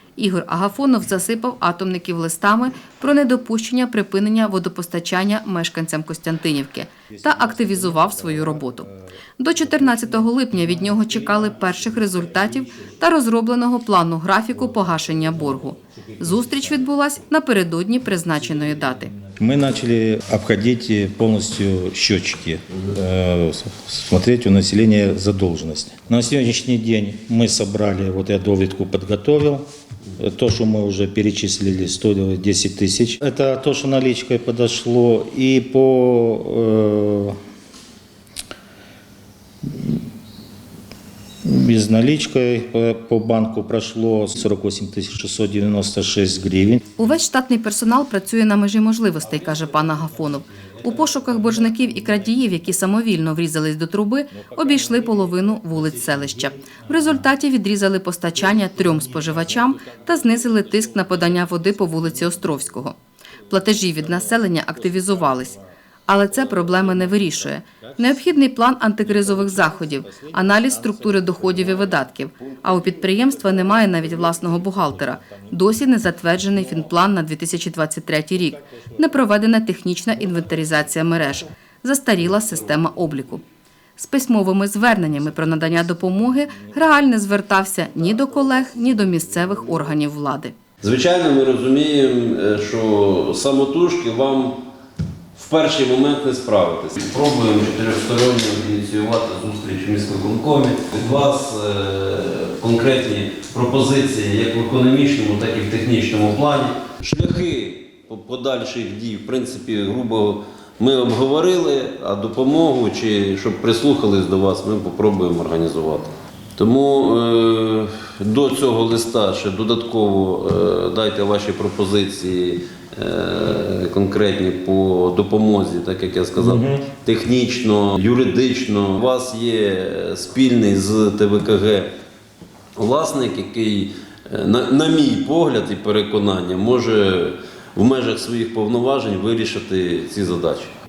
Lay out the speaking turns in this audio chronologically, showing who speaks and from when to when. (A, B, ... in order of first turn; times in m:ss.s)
0:00.2-0:19.1 A
0:07.1-0:08.8 B
0:09.7-0:12.2 B
0:16.2-0:16.6 B
0:19.4-0:29.7 B
0:30.2-0:37.4 B
0:39.6-0:40.0 B
0:41.4-0:46.9 B
0:47.0-1:03.0 A
0:50.8-0:51.5 B
0:54.5-0:56.8 B
0:58.5-1:00.9 B
1:03.5-1:23.4 A
1:03.6-1:05.6 B
1:07.8-1:08.0 B
1:09.1-1:11.9 B
1:12.6-1:15.5 B
1:24.0-1:30.5 A
1:25.3-1:26.0 B
1:28.1-1:29.2 B
1:30.8-1:34.6 C
1:35.4-2:11.9 C
2:06.4-2:06.8 B
2:12.8-2:20.7 C